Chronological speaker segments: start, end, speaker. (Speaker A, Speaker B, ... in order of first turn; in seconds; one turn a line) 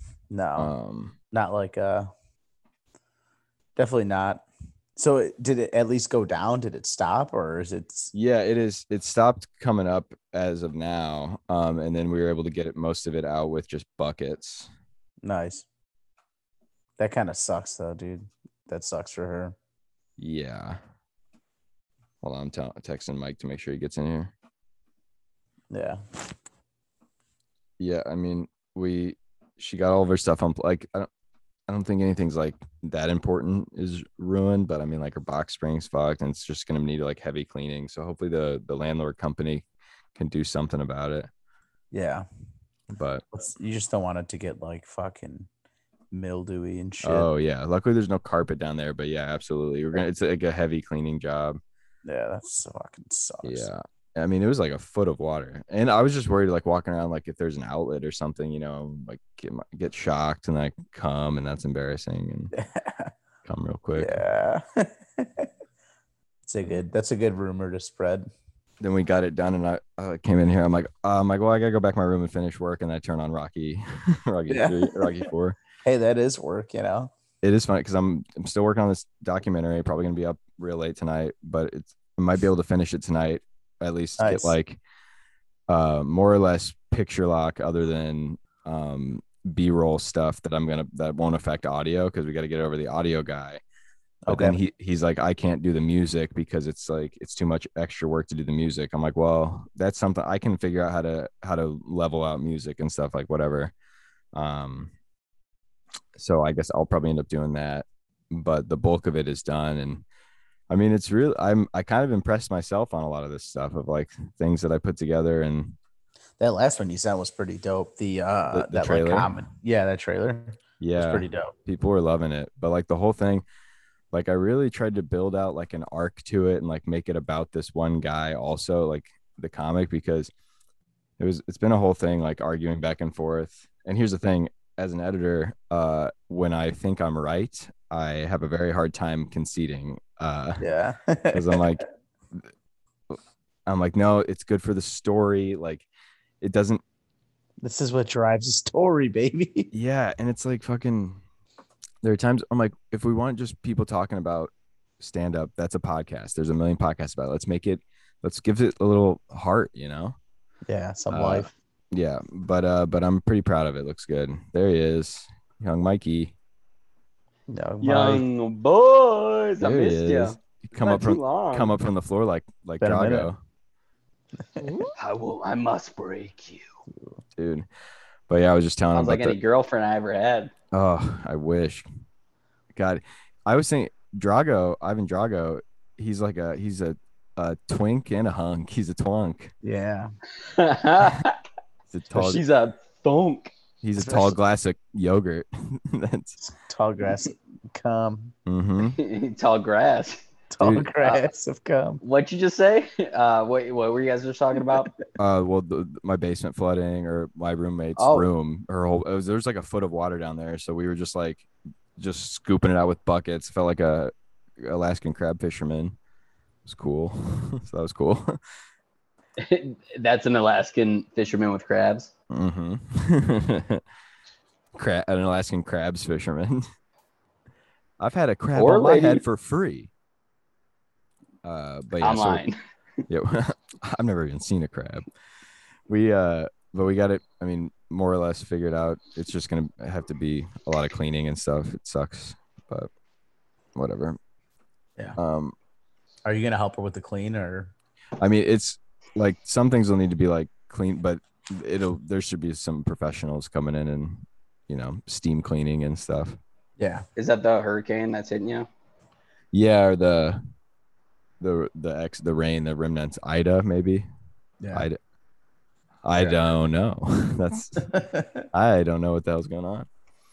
Speaker A: 0.3-0.7
Speaker B: 0.6-1.1
Speaker A: 1.3-2.1
Speaker A: 3.8-4.4
Speaker A: 5.0-8.1
Speaker B: 8.1-14.7
Speaker A: 15.2-15.6
Speaker A: 17.0-19.5
Speaker B: 20.2-20.8
Speaker B: 22.2-24.3
Speaker A: 25.7-26.0
Speaker B: 27.8-31.1
Speaker B: 31.7-41.3
Speaker A: 41.9-42.2
Speaker B: 42.9-43.2
Speaker A: 43.3-45.5
Speaker A: 46.1-47.3
Speaker B: 47.0-51.6
Speaker A: 52.0-53.7
Speaker B: 53.4-62.5
Speaker A: 62.5-63.1
Speaker B: 63.5-64.2
Speaker A: 64.0-65.5
Speaker A: 66.5-68.3
Speaker B: 68.8-75.6
Speaker A: 74.5-75.1
Speaker A: 75.8-77.1
Speaker B: 77.4-84.8
Speaker A: 84.2-84.5
Speaker B: 85.7-93.6
Speaker A: 94.2-94.6
Speaker B: 94.3-103.7
Speaker B: 104.3-104.9
Speaker B: 106.2-110.0
Speaker B: 110.7-115.8
Speaker A: 116.4-121.5
Speaker B: 118.5-119.3
Speaker B: 120.8-123.4
Speaker B: 124.1-130.3
Speaker B: 131.2-140.6
Speaker A: 140.6-141.7
Speaker B: 141.3-142.4
Speaker B: 143.1-145.9
Speaker B: 146.4-146.8
Speaker A: 147.6-149.7
Speaker B: 149.7-151.2
Speaker B: 152.0-160.2
Speaker A: 160.7-161.5
Speaker B: 161.1-166.3
Speaker A: 167.5-168.2
Speaker C: 167.8-171.7
Speaker B: 169.6-173.4
Speaker A: 172.8-173.3
Speaker A: 174.4-174.7
Speaker C: 175.0-176.8
Speaker B: 177.4-177.7
Speaker B: 178.3-179.4
Speaker C: 178.9-180.5
Speaker B: 180.7-181.9
Speaker B: 182.7-189.5
Speaker A: 189.6-190.1
Speaker C: 190.4-191.4
Speaker B: 191.9-192.4
Speaker C: 192.1-193.5
Speaker B: 193.8-196.4
Speaker A: 194.0-194.3
Speaker A: 196.5-198.3
Speaker B: 198.4-199.0
Speaker C: 198.8-200.2
Speaker A: 200.5-202.0
Speaker B: 200.6-200.9
Speaker C: 202.0-204.9
Speaker B: 205.2-215.9
Speaker C: 208.0-208.2
Speaker B: 216.6-218.4
Speaker C: 219.4-222.1
Speaker B: 222.3-223.8
Speaker B: 224.8-226.7
Speaker B: 228.0-229.9
Speaker C: 228.5-229.2
Speaker B: 231.4-232.4
Speaker C: 232.0-232.6
Speaker B: 233.1-235.1
Speaker B: 235.9-242.9
Speaker B: 243.7-244.2
Speaker B: 245.2-245.5
Speaker A: 246.2-247.7
Speaker B: 248.2-256.4
Speaker A: 256.8-257.0
Speaker C: 257.1-258.7
Speaker B: 259.5-260.4
Speaker B: 261.4-264.1
Speaker A: 264.6-264.9
Speaker B: 264.7-265.0
Speaker B: 266.0-267.9
Speaker A: 267.8-268.4
Speaker B: 268.5-269.9